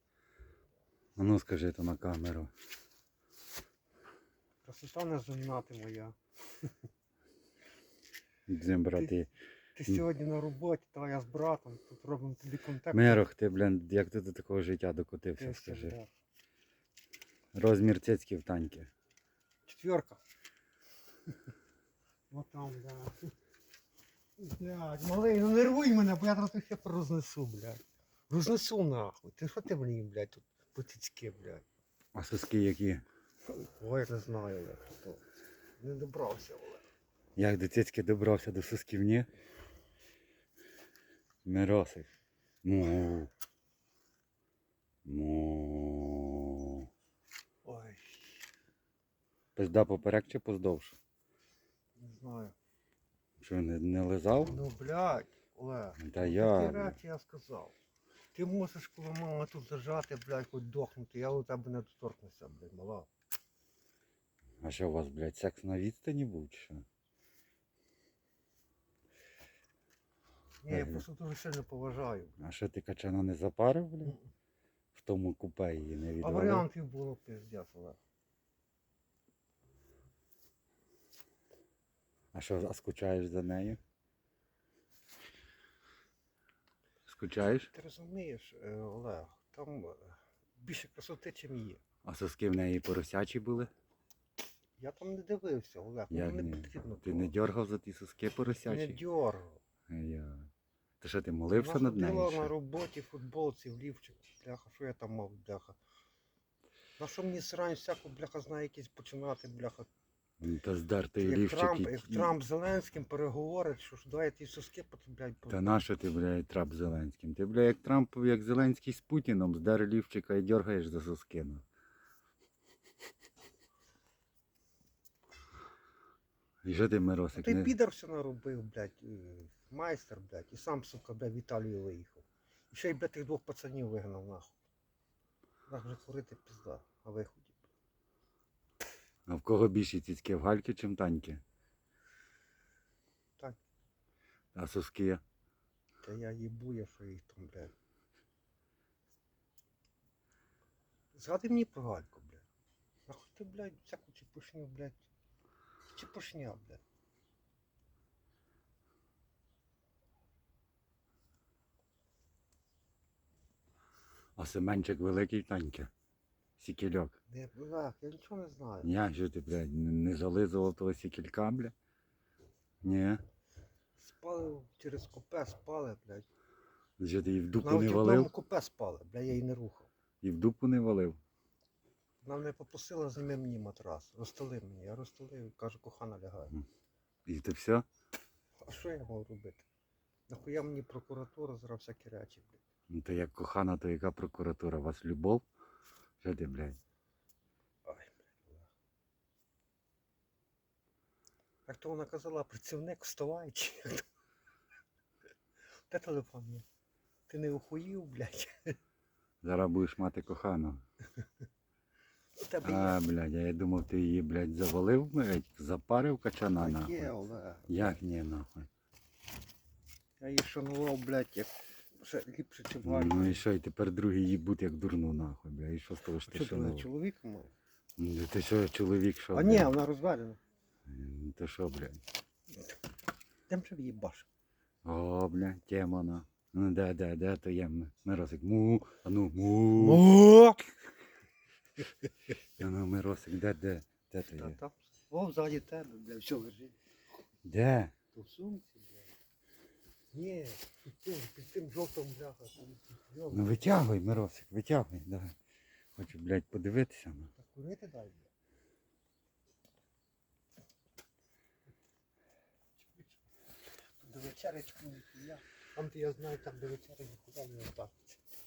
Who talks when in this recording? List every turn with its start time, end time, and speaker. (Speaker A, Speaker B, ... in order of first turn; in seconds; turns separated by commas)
Speaker A: 1.2-2.5, Speaker B: 4.6-6.7, Speaker A: 8.5-9.3, Speaker B: 9.8-13.2, Speaker A: 12.9-15.9, Speaker B: 15.4-16.1, Speaker A: 17.5-18.9, Speaker B: 19.6-20.2, Speaker B: 22.3-23.3, Speaker B: 24.4-31.6, Speaker A: 32.1-33.0, Speaker B: 33.5-35.2, Speaker B: 35.8-36.8, Speaker A: 37.4-39.3, Speaker A: 41.4-42.1, Speaker A: 42.6-43.3, Speaker A: 45.0-46.9, Speaker B: 47.6-48.5, Speaker A: 49.5-51.0, Speaker B: 52.0-52.5, Speaker A: 53.4-54.6, Speaker B: 54.5-57.7, Speaker A: 56.0-57.0, Speaker B: 58.3-63.1, Speaker A: 64.6-66.8, Speaker B: 70.6-72.3, Speaker A: 70.7-71.0, Speaker A: 72.4-74.2, Speaker A: 74.9-76.7, Speaker B: 76.2-78.0, Speaker A: 82.3-83.8, Speaker A: 87.0-87.7, Speaker B: 87.7-91.8, Speaker A: 92.0-93.7, Speaker B: 94.8-97.3, Speaker A: 96.1-99.0, Speaker B: 98.4-99.6, Speaker A: 99.9-100.5, Speaker A: 101.0-102.5, Speaker B: 101.5-105.8, Speaker B: 107.0-109.9, Speaker A: 110.4-112.3, Speaker B: 111.2-115.8, Speaker A: 115.5-121.6, Speaker A: 126.6-127.7, Speaker B: 127.3-134.6, Speaker B: 135.7-137.6, Speaker A: 139.3-141.4, Speaker A: 144.5-145.2, Speaker B: 146.0-147.7, Speaker B: 151.1-152.4, Speaker B: 153.1-155.0, Speaker B: 155.9-156.8, Speaker A: 164.3-165.9, Speaker A: 166.6-167.2, Speaker B: 167.3-168.9, Speaker A: 168.8-171.7, Speaker A: 172.8-173.2, Speaker B: 174.0-176.3, Speaker A: 177.0-178.3, Speaker B: 177.6-179.9, Speaker A: 180.2-181.2, Speaker B: 182.2-186.6, Speaker A: 187.2-187.8, Speaker B: 188.6-189.6, Speaker B: 190.3-192.6, Speaker A: 192.9-195.4, Speaker A: 196.2-196.8, Speaker B: 197.8-198.7, Speaker B: 201.7-204.0, Speaker B: 205.9-206.6, Speaker B: 207.3-208.8, Speaker A: 209.4-210.8, Speaker B: 212.4-213.0, Speaker A: 212.6-217.1, Speaker B: 216.4-217.9, Speaker A: 217.7-218.7, Speaker B: 220.2-223.4, Speaker A: 222.8-226.9, Speaker B: 226.2-227.5, Speaker A: 228.0-229.7, Speaker B: 229.3-230.4, Speaker A: 230.9-232.0, Speaker B: 233.5-234.3, Speaker A: 234.8-240.1, Speaker B: 239.7-240.7, Speaker A: 242.6-244.6, Speaker B: 244.4-246.8, Speaker A: 247.4-247.9, Speaker B: 248.1-249.1, Speaker B: 250.1-253.7, Speaker A: 253.3-255.3, Speaker A: 255.9-257.3, Speaker B: 257.4-258.3, Speaker B: 263.9-268.2